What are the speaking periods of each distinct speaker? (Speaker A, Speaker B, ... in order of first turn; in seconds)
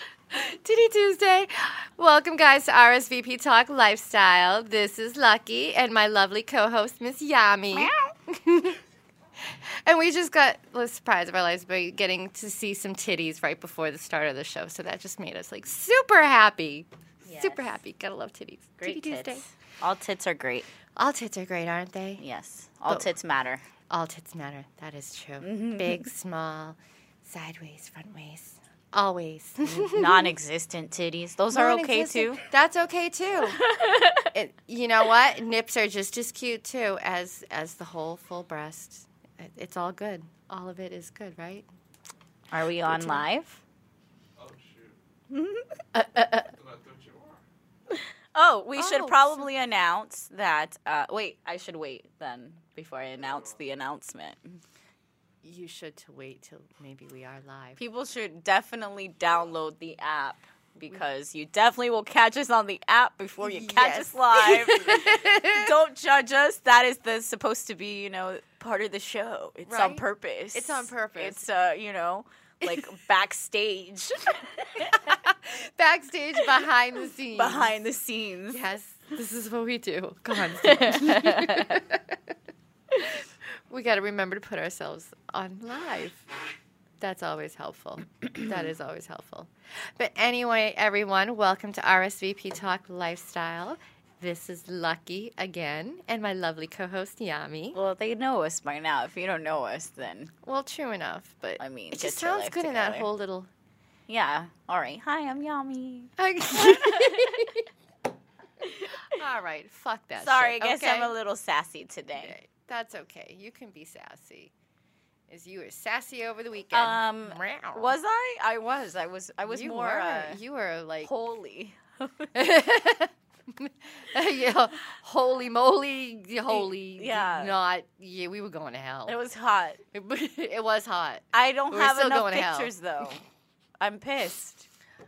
Speaker A: 0.3-8.8, 9.4-19.4, 21.0-22.2, 23.9-30.3, 31.5-33.6, 34.3-41.7, 42.9-43.2, 46.0-46.5, 48.8-49.5, 55.4-57.8, 63.4-65.7, 69.7-71.5, 72.6-72.9, 74.9-77.8, 78.5-82.2, 83.0-86.3, 87.0-97.8, 100.5-103.5, 106.2-107.7, 108.9-111.1, 112.2-114.5, 115.3-118.0, 119.5-121.1, 122.3-129.2, 129.9-132.7
Speaker B: 7.7-8.1, 17.2-17.8, 18.8-20.7, 22.2-23.6, 25.4-26.1, 29.7-32.4, 33.6-34.3, 42.5-43.6, 45.3-45.8, 47.9-54.6, 57.8-75.2, 77.3-78.6, 80.5-81.8, 97.7-100.3, 101.6-103.1, 104.1-107.5, 108.6-109.0, 110.2-112.4, 116.7-120.4, 121.0-122.3, 126.5-127.6, 129.1-129.8, 131.3-133.2, 133.8-134.7
Speaker C: 44.4-45.0, 46.5-47.4, 53.2-53.6